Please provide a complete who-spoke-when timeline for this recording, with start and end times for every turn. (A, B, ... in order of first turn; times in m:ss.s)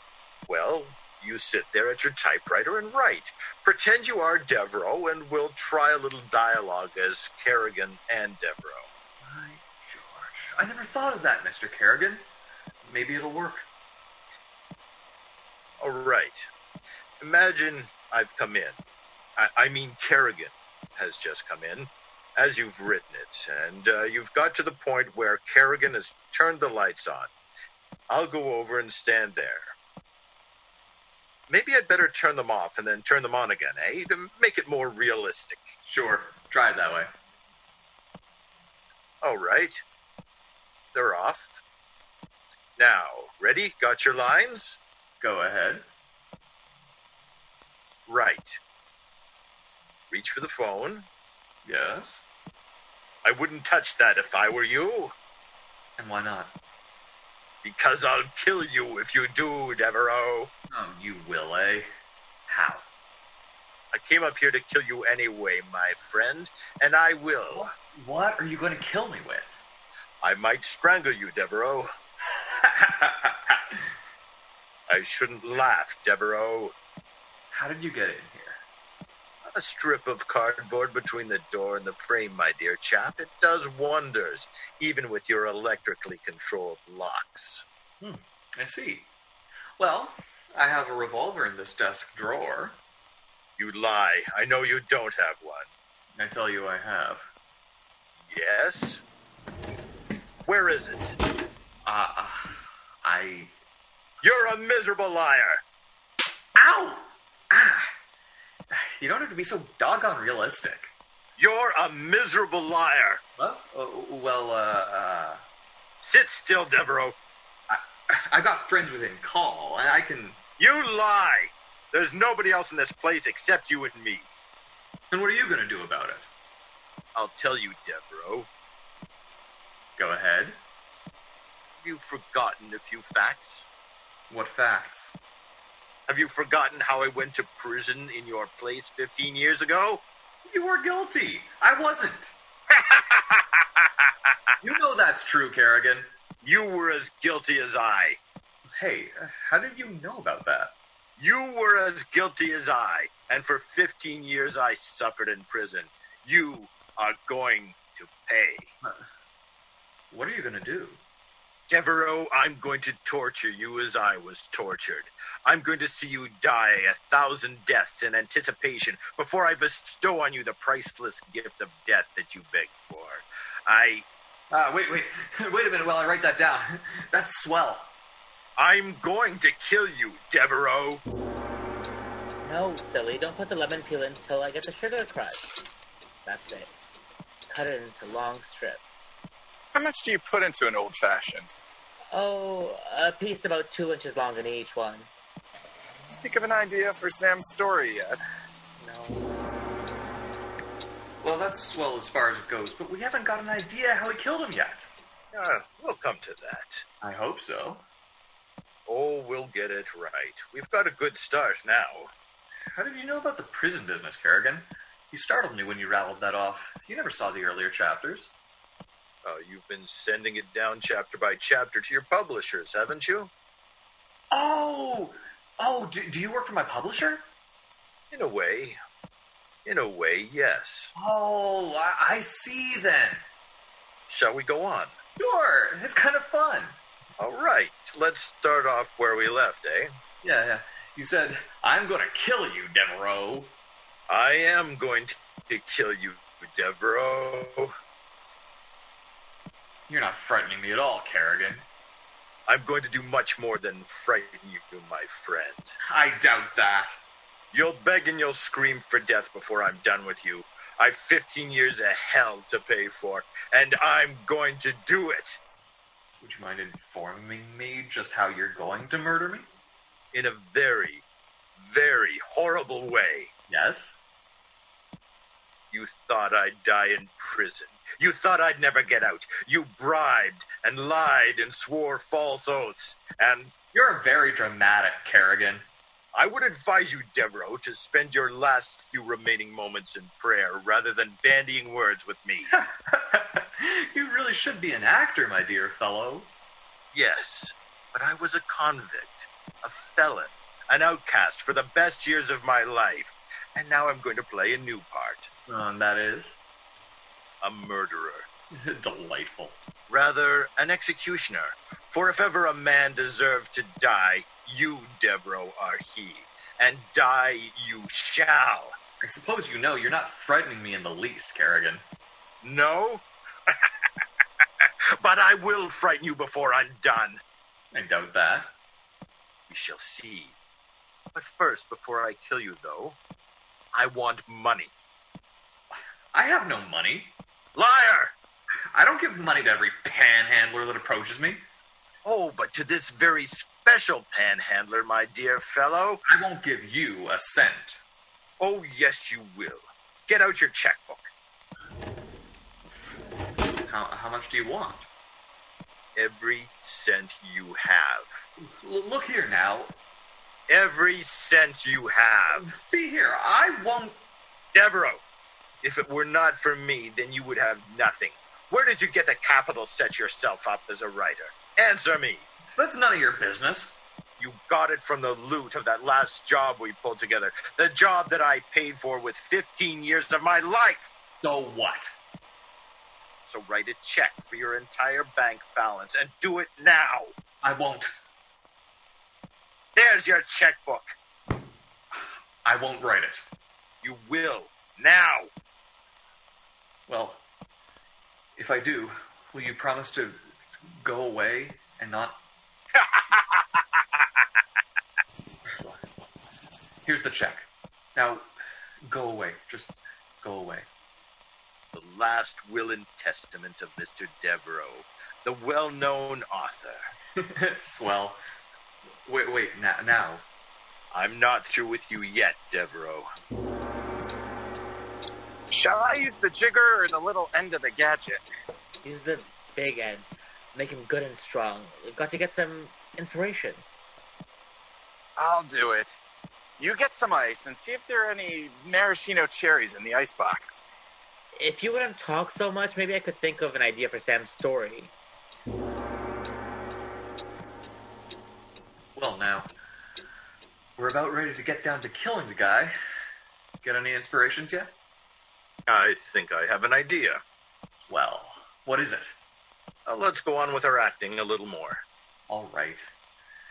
0:00.5-0:08.9 A
0:09.2-0:12.2 B
0:12.8-0:13.6 B
0:15.8-0:16.5 A
0:17.2-0:18.8 A
0:19.4-0:27.3 A
0:28.1-0:29.8 A
0:31.5-0:35.7 A
0:35.8-0:37.1 B
0:39.2-0:39.8 A
0:40.9-0:41.6 A
0:42.8-0:44.8 A
0:45.2-0:45.8 B
0:48.1-0:48.6 A
0:50.1-0:51.1 A
0:51.6-0:52.2 B
0:53.2-0:55.1 A
0:56.0-0:56.5 B
0:57.6-1:00.5 A
1:00.7-1:01.9 B
1:02.5-1:02.8 B
1:03.9-1:07.7 A
1:07.5-1:09.6 B
1:10.2-1:11.9 A
1:12.3-1:13.8 B
1:14.9-1:16.7 A
1:17.5-1:18.6 B
1:19.5-1:27.6 A
1:28.0-1:29.1 B
1:29.8-1:32.8 B
1:33.6-1:35.7 A
1:36.2-1:37.3 B
1:38.2-1:39.0 A
1:40.5-1:41.2 A
1:41.8-1:43.5 B
1:44.2-1:45.6 A
1:46.6-1:47.9 B
1:48.7-1:50.9 B
1:51.4-1:53.2 A
1:53.4-1:55.4 B
1:56.0-1:57.2 A
1:57.7-2:00.4 B
2:00.6-2:04.3 A
2:05.1-2:06.3 B
2:07.2-2:08.5 A
2:10.0-2:10.6 B
2:11.8-2:13.7 A
2:14.3-2:15.2 B
2:16.1-2:20.0 A
2:20.5-2:22.3 B
2:22.7-2:24.5 A
2:24.6-2:26.1 B
2:26.4-2:28.2 A
2:28.8-2:30.7 B
2:31.2-2:38.7 A
2:40.1-2:41.0 B
2:41.7-2:54.0 A
2:54.5-2:57.9 B
2:58.6-3:01.0 A
3:02.4-3:05.5 C
3:06.3-3:06.7 C
3:07.5-3:09.0 C
3:09.7-3:11.5 D
3:12.1-3:15.1 C
3:16.1-3:18.3 D
3:18.8-3:19.3 B
3:21.2-3:24.9 B
3:25.3-3:26.8 A
3:27.0-3:27.8 B
3:28.9-3:32.1 A
3:32.8-3:38.3 B
3:39.2-3:43.3 A
3:44.3-3:47.2 B
3:48.1-3:48.8 A
3:49.6-3:50.9 A
3:51.0-3:53.2 B
3:54.1-3:55.0 A
3:55.2-3:56.8 B
3:57.2-3:59.9 A
4:00.2-4:03.5 B
4:04.1-4:07.7 A
4:09.9-4:11.6 B
4:12.5-4:15.8 A
4:15.9-4:16.9 B
4:17.5-4:25.4 A
4:26.2-4:29.4 B
4:30.1-4:31.0 A
4:31.6-4:33.3 A
4:33.5-4:34.0 B
4:35.7-4:43.5 A
4:43.7-4:45.6 B
4:46.1-4:52.5 A
4:52.5-4:56.3 B
4:56.9-5:05.3 A
5:05.5-5:06.4 B
5:07.4-5:08.3 A
5:08.5-5:09.6 B
5:09.9-5:18.7 A
5:19.0-5:21.8 B
5:22.4-5:23.7 A
5:24.6-5:27.2 A
5:27.7-5:28.5 B
5:29.5-5:30.4 A
5:31.2-5:33.0 A
5:33.7-5:34.7 A
5:35.7-5:37.2 B
5:37.6-5:38.1 A
5:38.7-5:41.4 B
5:42.0-5:46.0 A
5:46.1-5:47.8 B
5:48.4-5:51.1 A
5:52.7-5:53.0 B
5:53.6-5:54.9 B
5:56.0-5:58.1 A
5:58.4-5:59.7 B
6:00.5-6:02.5 A
6:02.4-6:04.0 B
6:04.5-6:05.0 A
6:05.6-6:12.3 A
6:12.6-6:13.8 B
6:14.2-6:20.9 A
6:21.2-6:21.9 B
6:23.3-6:27.1 A
6:27.4-6:27.9 B
6:29.8-6:30.9 A
6:31.9-6:33.2 B
6:33.8-6:35.3 A
6:36.9-6:37.2 B
6:38.4-6:40.2 B
6:40.7-6:42.2 B
6:42.8-6:43.6 A
6:45.5-6:45.8 B
6:46.9-6:48.3 B
6:48.9-6:50.7 B
6:51.7-6:56.8 A
6:57.2-6:58.2 B
6:59.1-7:00.2 B
7:00.9-7:03.1 A
7:05.5-7:08.2 D
7:08.8-7:13.6 C
7:15.2-7:16.0 D
7:16.6-7:20.7 D
7:21.4-7:24.9 C
7:29.0-7:29.5 B
7:30.8-7:32.7 B
7:33.6-7:34.7 B
7:35.7-7:37.2 A
7:37.9-7:39.1 B
7:39.9-7:41.8 A
7:42.3-7:42.8 B